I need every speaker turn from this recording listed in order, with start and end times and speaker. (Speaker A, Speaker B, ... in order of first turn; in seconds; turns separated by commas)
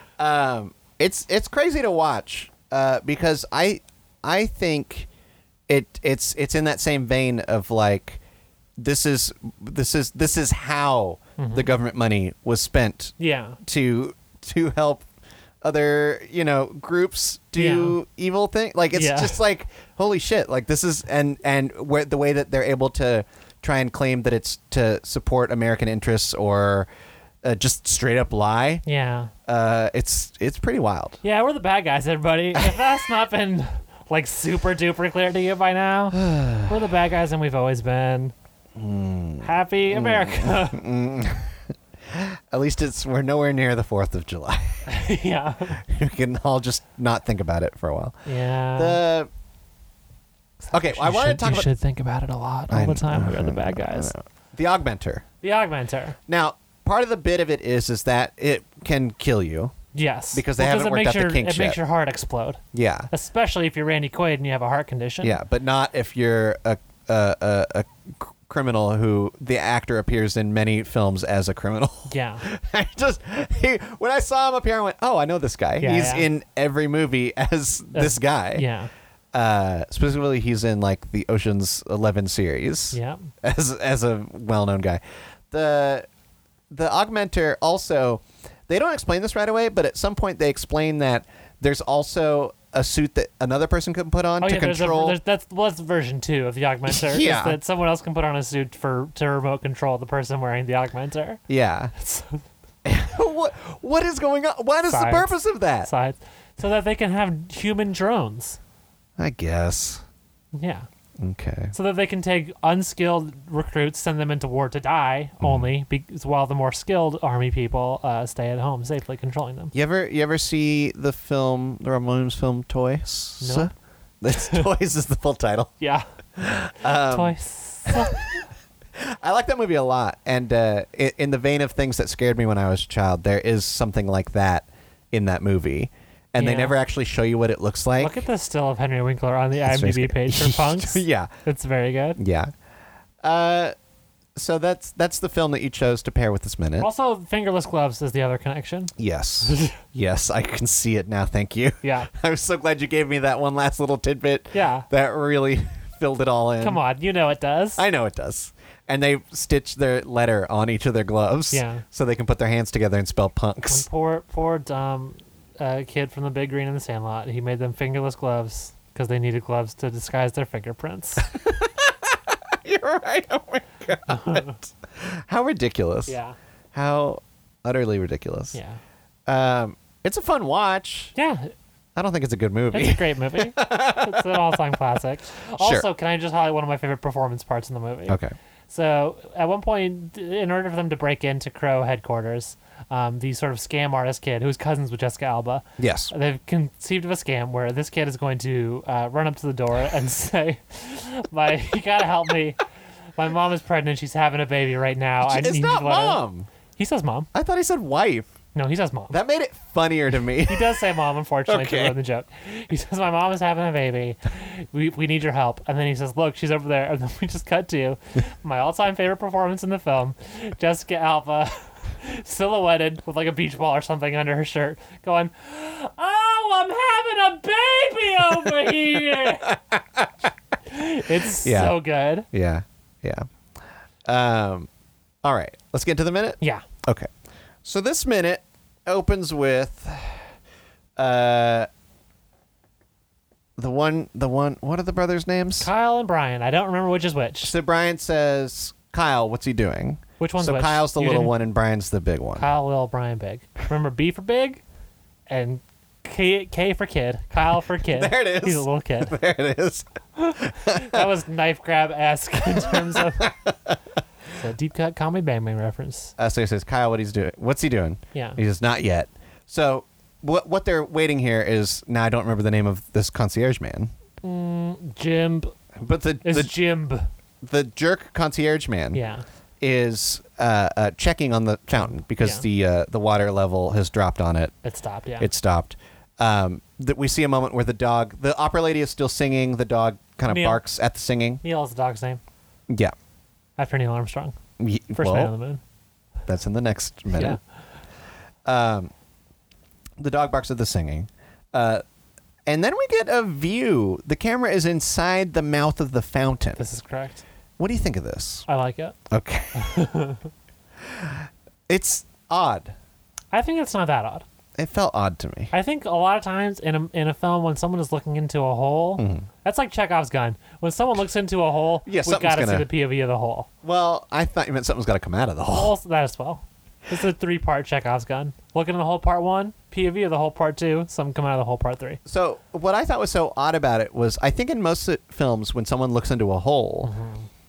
Speaker A: 0.2-5.1, Speaker A: 5.7-8.2, Speaker A: 8.8-15.1, Speaker B: 11.4-11.7, Speaker B: 13.2-13.6, Speaker A: 15.6-26.9, Speaker B: 17.6-18.0, Speaker B: 18.9-19.4, Speaker A: 27.4-28.8, Speaker B: 28.9-29.3, Speaker A: 29.4-31.2, Speaker B: 31.2-38.3, Speaker A: 32.5-32.9, Speaker A: 36.1-36.7, Speaker A: 38.8-44.9, Speaker B: 39.4-40.8, Speaker B: 44.9-45.8, Speaker A: 45.8-48.2, Speaker B: 48.2-49.0, Speaker A: 48.8-49.3, Speaker B: 50.6-54.1, Speaker A: 50.7-51.7, Speaker A: 52.7-55.2, Speaker B: 55.4-56.2, Speaker A: 56.3-59.7, Speaker B: 59.9-65.4, Speaker A: 60.3-61.8, Speaker A: 62.7-63.1, Speaker A: 65.2-78.6, Speaker B: 72.1-72.4, Speaker B: 75.8-76.3, Speaker B: 77.9-78.9, Speaker A: 79.3-86.1, Speaker B: 82.9-83.3, Speaker A: 86.7-95.2, Speaker B: 94.4-101.4, Speaker A: 96.9-97.6, Speaker A: 101.5-101.9, Speaker B: 101.9-102.4, Speaker A: 102.8-105.9, Speaker B: 104.9-108.6, Speaker A: 109.2-110.0, Speaker B: 110.5-110.9, Speaker A: 111.2-111.7, Speaker B: 111.7-119.7, Speaker A: 115.4-115.7, Speaker A: 119.7-125.7, Speaker B: 123.4-123.7, Speaker B: 124.4-124.6, Speaker B: 125.8-126.0, Speaker A: 126.4-127.3, Speaker B: 126.9-128.2, Speaker A: 127.9-128.4, Speaker A: 129.0-138.2, Speaker B: 136.4-136.7, Speaker B: 138.0-142.2, Speaker A: 139.6-141.3, Speaker A: 142.2-142.5, Speaker A: 143.2-143.7, Speaker A: 144.4-146.9, Speaker B: 146.8-149.8, Speaker A: 149.0-156.8, Speaker B: 151.8-152.1, Speaker B: 154.5-154.9, Speaker B: 156.6-157.8, Speaker A: 157.8-163.9, Speaker B: 161.5-161.8, Speaker B: 163.7-171.3, Speaker A: 171.2-176.2, Speaker B: 174.0-174.6, Speaker B: 176.1-176.4, Speaker A: 176.7-178.6, Speaker B: 178.5-178.8, Speaker A: 179.3-181.1, Speaker B: 181.1-181.5, Speaker A: 181.9-184.6, Speaker B: 182.7-202.6, Speaker A: 185.6-185.9, Speaker A: 188.1-188.3, Speaker A: 195.8-196.1, Speaker B: 203.2-206.2, Speaker A: 205.2-206.5, Speaker B: 206.8-207.3, Speaker A: 207.3-208.3, Speaker B: 208.5-209.2, Speaker A: 209.1-210.8, Speaker B: 210.5-229.6, Speaker A: 211.5-211.9, Speaker A: 229.1-230.3, Speaker B: 230.7-232.3, Speaker A: 231.4-231.8, Speaker A: 232.3-233.3, Speaker A: 234.0-234.7, Speaker A: 235.2-237.1, Speaker A: 237.6-240.2, Speaker A: 241.0-241.7, Speaker A: 243.6-245.7, Speaker B: 245.6-247.5, Speaker A: 247.4-252.5, Speaker B: 250.2-251.3, Speaker B: 252.4-254.6, Speaker B: 255.3-259.1, Speaker A: 257.8-259.9, Speaker B: 260.2-263.3, Speaker A: 260.4-261.1, Speaker A: 262.5-263.8, Speaker B: 264.3-266.1, Speaker A: 266.2-273.9, Speaker B: 268.1-268.4, Speaker B: 274.2-275.5, Speaker A: 275.8-276.5, Speaker B: 276.2-277.1, Speaker A: 277.4-279.0, Speaker B: 278.9-279.2, Speaker A: 279.6-284.5, Speaker B: 282.2-282.4, Speaker B: 284.6-285.3, Speaker A: 285.2-291.4, Speaker B: 290.3-290.6, Speaker B: 291.4-292.2, Speaker A: 292.7-292.9, Speaker B: 293.6-294.4, Speaker A: 294.6-295.3, Speaker B: 294.9-295.6, Speaker A: 296.3-297.4, Speaker B: 297.1-297.4, Speaker A: 298.4-298.9, Speaker A: 300.0-301.8, Speaker A: 302.5-306.6, Speaker B: 306.6-307.2, Speaker A: 307.6-308.4, Speaker B: 308.5-309.0, Speaker A: 309.1-309.8, Speaker B: 309.5-310.3, Speaker A: 310.9-312.7, Speaker B: 313.3-314.2, Speaker A: 314.6-315.5, Speaker B: 315.5-323.5, Speaker A: 319.0-319.3, Speaker A: 321.9-322.7, Speaker A: 323.6-325.7, Speaker B: 325.5-332.0, Speaker A: 332.1-336.9, Speaker B: 336.8-337.3